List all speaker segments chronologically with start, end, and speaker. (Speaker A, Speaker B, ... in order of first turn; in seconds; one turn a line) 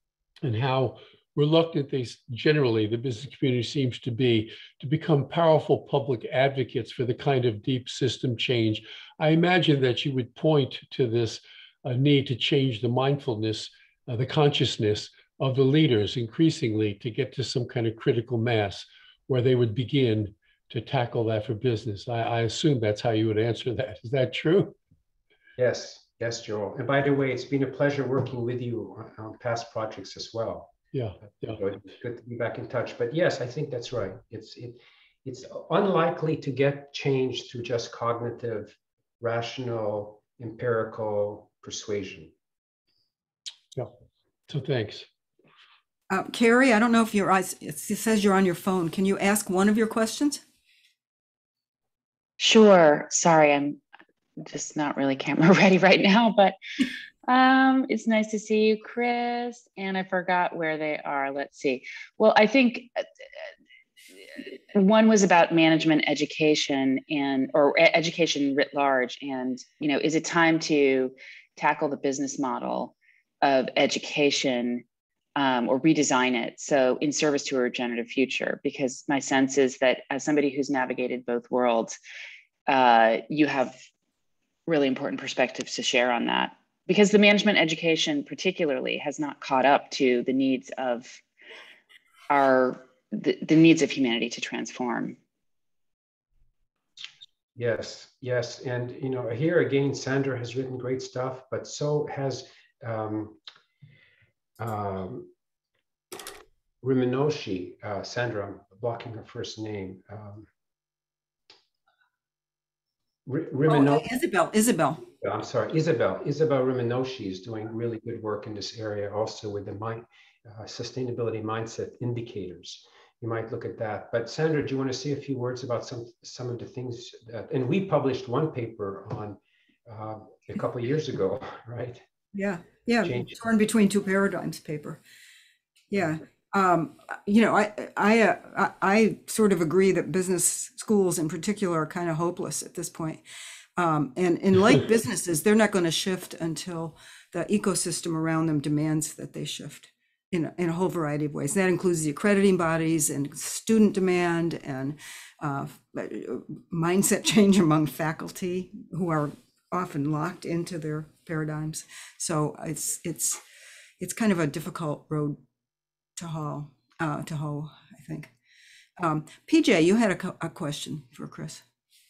Speaker A: 0.4-24.8
Speaker B: 25.6-42.3
Speaker A: 30.9-31.6
Speaker A: 44.5-45.1
Speaker C: 46.1-50.4
Speaker D: 52.4-53.8
Speaker D: 54.4-56.6
Speaker D: 57.3-63.0
Speaker D: 64.8-74.8
Speaker D: 75.4-82.0
Speaker D: 82.7-83.8
Speaker D: 84.7-91.2
Speaker D: 92.3-95.2
Speaker B: 97.6-103.4
Speaker B: 104.6-105.3
Speaker B: 106.8-110.5
Speaker B: 113.3-114.1
Speaker C: 113.7-115.0
Speaker B: 115.2-132.0
Speaker C: 132.3-135.0
Speaker B: 133.0-133.3
Speaker C: 135.9-143.2
Speaker C: 143.8-163.4
Speaker C: 164.0-165.4
Speaker C: 166.2-168.3
Speaker C: 169.0-171.6